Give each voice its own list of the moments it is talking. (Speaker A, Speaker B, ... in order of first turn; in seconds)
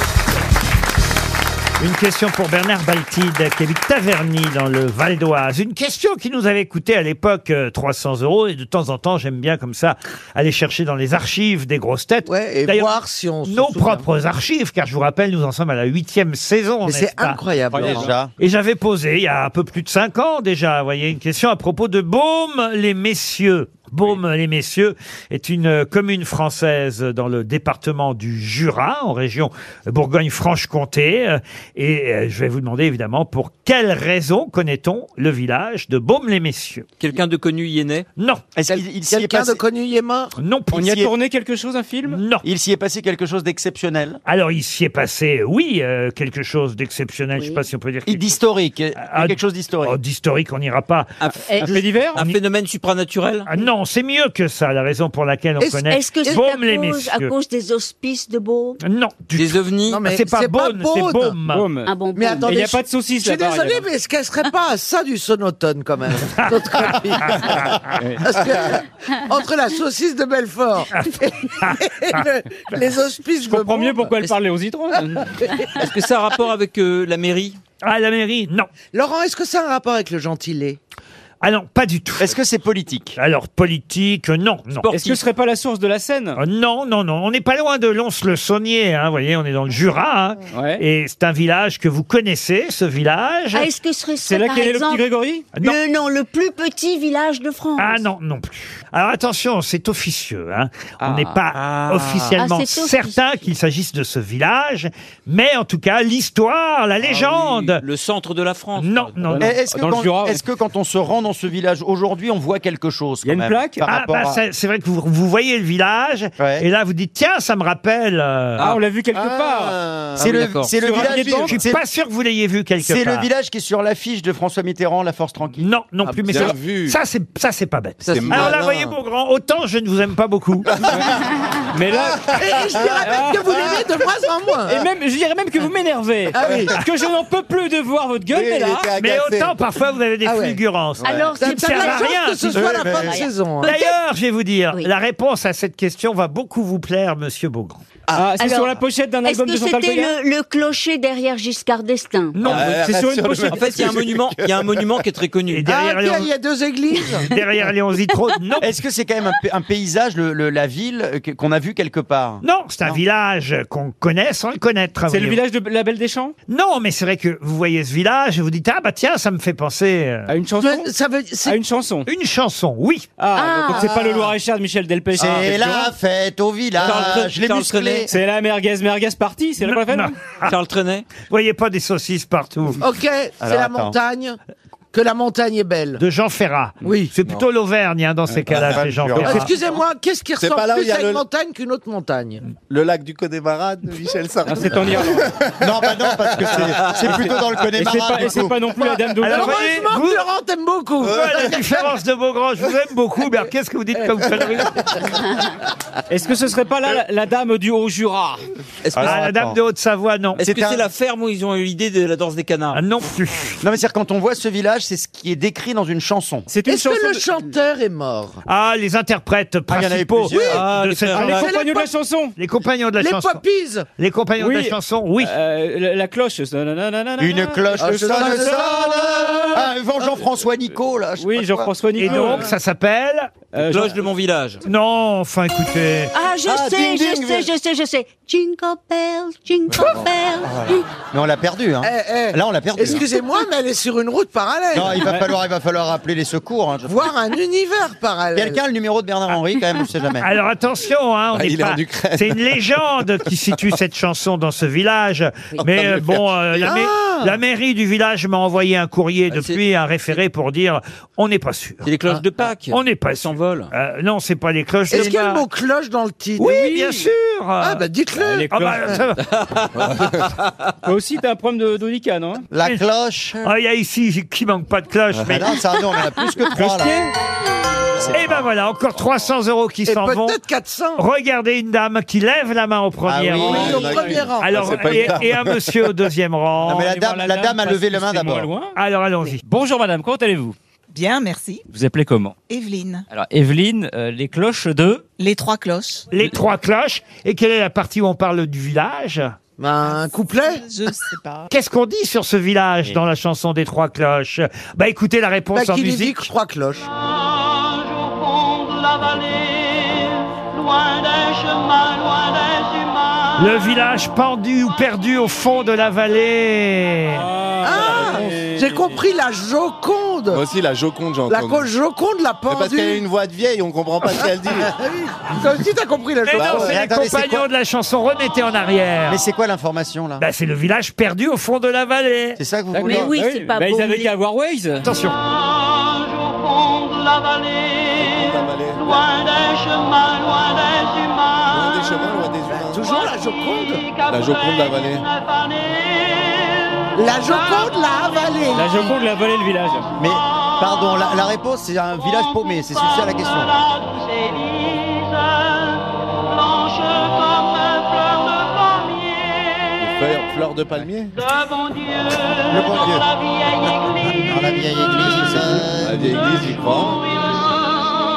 Speaker A: 1.8-17.4, 18.4-36.9, 38.2-38.5, 40.4-41.1, 42.1-42.4, 44.3-48.4, 49.0-52.4, 53.5-57.4, 58.8-61.7, 67.2-67.7, 70.9-71.8, 77.8-78.7, 81.4-82.3, 83.2-84.9, 86.4-93.7, 97.8-107.8, 108.8-109.5, 113.8-118.7, 121.5-123.3, 125.6-130.8, 139.0-142.6, 143.6-147.8, 152.3-152.7, 155.5-156.3, 157.1-158.7, 162.4-165.4, 166.5-170.3, 172.1-173.1, 179.6-180.6, 181.3-182.8, 186.0-189.5, 199.2-200.2, 201.0-204.9, 209.0-210.4, 212.7-213.6, 218.4-221.5, 222.4-223.4, 224.0-225.3, 232.0-233.3, 234.7-236.1, 250.2-261.9, 262.7-265.4, 266.4-267.9, 268.5-269.2, 273.4-275.6, 278.1-280.4, 281.0-286.9, 288.8-289.4, 296.1-299.4, 301.5-306.3, 313.4-317.3, 326.2-329.2, 330.2-332.4, 334.8-335.2
Speaker B: 12.3-14.1, 16.9-18.1, 38.7-40.3, 55.6-56.5, 59.9-61.4, 62.2-74.4, 75.4-75.8, 78.9-80.8, 132.0-134.8, 136.3-136.8, 140.2-140.6, 141.4-143.9, 155.7-157.3, 170.6-171.6, 173.7-174.3, 182.8-184.4, 184.9-186.0, 186.8-187.1, 189.3-192.4, 198.8-201.7, 204.2-205.0, 216.7-218.4, 221.3-221.9, 223.0-223.9, 227.8-229.7, 241.8-245.1, 246.9-248.6, 256.6-257.4, 264.9-267.1, 267.6-268.5, 279.9-281.0, 283.4-284.9, 299.6-300.6, 305.5-306.9, 317.6-320.4, 321.3-323.1, 324.1-326.7, 342.5-344.0, 346.9-349.0
Speaker C: 17.7-18.1, 40.7-42.2, 51.6-52.2, 61.5-63.9, 68.0-68.3, 73.4-75.4, 84.9-86.4, 90.5-90.8, 94.2-95.5, 101.0-101.4, 109.3-110.4, 113.2-113.8, 118.6-119.8, 120.8-121.5, 131.7-132.3, 133.0-133.7, 134.7-138.9, 148.1-150.2, 152.4-153.9, 165.1-166.3, 170.3-170.9, 171.4-172.1, 173.2-175.9, 176.8-177.2, 178.1-180.2, 188.4-189.5, 194.4-195.3, 197.7-199.8, 206.1-208.4, 216.5-217.3, 221.1-222.3, 224.4-229.6, 231.2-232.5, 233.5-234.0, 245.0-245.3, 268.1-269.2, 270.8-272.5, 276.5-277.1, 283.9-284.2, 286.7-288.7, 289.4-290.6, 291.7-292.4, 293.1-295.1, 317.1-319.1, 332.7-334.9, 348.5-349.9
Speaker D: 17.8-18.3, 38.6-39.6, 42.4-44.2, 48.1-50.0, 82.2-83.2, 109.4-114.4, 116.4-116.7, 120.2-121.8, 122.8-125.7, 142.5-143.2, 158.6-163.0, 175.2-178.1, 183.4-183.9, 188.5-189.5, 195.6-198.6, 208.9-209.6, 210.4-210.8, 213.6-216.5, 219.7-220.6, 227.2-231.7, 240.4-243.1, 244.7-247.1, 248.3-250.3, 272.5-273.4, 275.2-277.0, 278.0-278.3, 283.1-284.0, 286.7-288.5, 326.5-327.5, 329.1-330.3, 332.4-333.1, 350.0-353.7, 362.5-363.1, 364.1-366.2
Speaker E: 37.0-38.1, 52.1-53.5, 59.4-60.0, 75.7-77.6, 84.8-85.2, 101.6-102.3, 107.1-109.2, 120.2-120.8, 128.0-128.5, 153.5-155.7, 176.8-178.1, 180.4-181.1, 208.9-209.2, 210.4-212.8, 220.3-221.5, 233.6-234.6, 259.3-259.6, 261.8-263.7
Speaker F: 55.9-58.8, 61.9-62.6, 93.5-95.1, 95.6-98.0, 102.3-103.4, 141.0-142.2, 143.0-143.8, 148.4-148.7, 149.2-152.4, 173.4-173.8, 236.1-240.8, 332.8-334.1
Speaker G: 119.1-121.6, 126.3-127.0, 128.1-129.0, 130.7-131.0, 132.4-132.9, 136.4-136.7, 138.3-139.6, 141.0-141.4, 152.4-155.0, 190.4-191.2, 192.7-197.4, 201.0-201.6, 236.4-237.5, 239.8-240.0, 251.3-252.6, 255.6-256.6, 269.8-270.2, 283.5-285.9, 320.3-321.7, 322.5-324.7, 326.3-326.8, 337.9-339.1, 341.5-343.0, 344.1-345.1, 359.8-361.2, 365.2-367.1
Speaker H: 290.9-291.7, 292.5-293.1, 295.2-296.1, 300.5-301.5